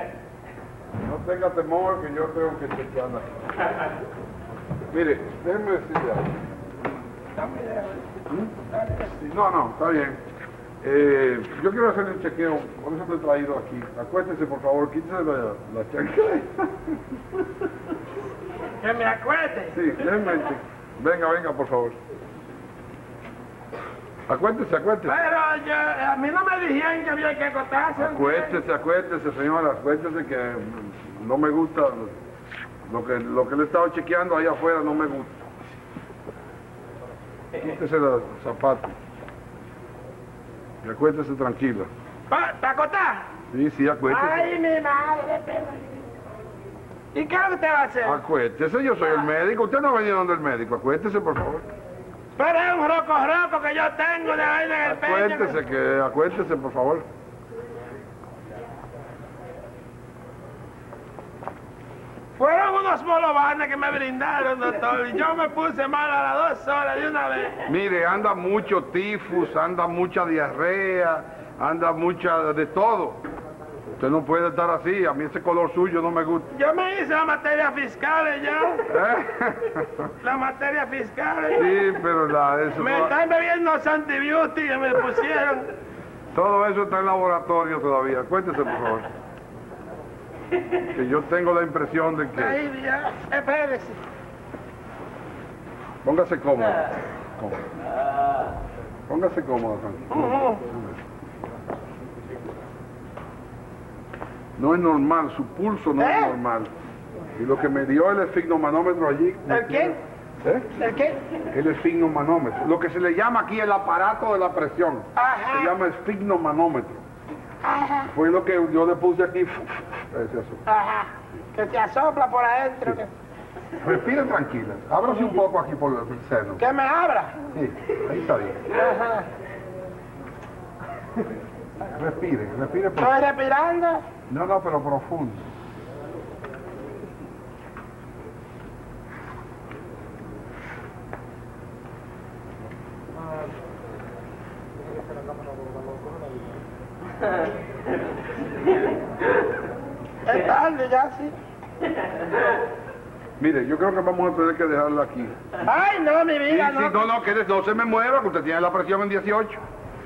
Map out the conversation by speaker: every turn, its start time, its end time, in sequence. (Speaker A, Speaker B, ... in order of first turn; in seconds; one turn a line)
Speaker A: 1.0-3.4
Speaker A: 4.9-6.4
Speaker B: 7.4-8.1
Speaker A: 8.3-8.6
Speaker B: 8.7-9.1
Speaker A: 9.2-10.2
Speaker A: 10.8-17.0
Speaker B: 18.8-19.8
Speaker A: 19.7-22.0
Speaker A: 24.3-25.2
Speaker B: 25.1-28.6
Speaker A: 28.0-32.2
Speaker A: 32.9-35.5
Speaker A: 37.5-38.9
Speaker A: 40.8-41.9
Speaker B: 42.3-43.2
Speaker A: 43.5-44.5
Speaker B: 44.1-45.8
Speaker B: 47.1-48.2
Speaker A: 48.0-51.6
Speaker B: 52.4-55.6
Speaker A: 54.8-57.0
Speaker B: 62.4-67.5
Speaker A: 67.7-73.2
Speaker A: 74.0-76.5
Speaker B: 76.5-78.8
Speaker A: 78.9-80.1
Speaker B: 80.2-81.7
Speaker A: 81.5-83.1
Speaker B: 82.8-85.7
Speaker A: 86.3-89.1
Speaker A: 90.9-92.6
Speaker B: 92.3-94.0
Speaker A: 96.0-97.6
Speaker A: 99.1-101.0
Speaker B: 100.1-100.6
Speaker A: 104.6-106.7
Speaker B: 106.0-106.3
Speaker A: 107.4-110.7
Speaker B: 109.5-110.0
Speaker B: 110.8-111.2
Speaker A: 111.5-117.0
Speaker B: 115.2-115.7
Speaker B: 117.6-118.1
Speaker A: 118.1-120.6
Speaker B: 120.7-123.1
Speaker A: 123.8-126.6
Speaker B: 126.6-127.4
Speaker A: 127.5-128.6
Speaker B: 128.7-129.2
Speaker A: 131.8-133.2
Speaker B: 133.0-134.0
Speaker A: 134.3-135.4
Speaker B: 150.2-151.3
Speaker A: 153.4-155.3
Speaker B: 155.7-157.0
Speaker A: 156.5-159.6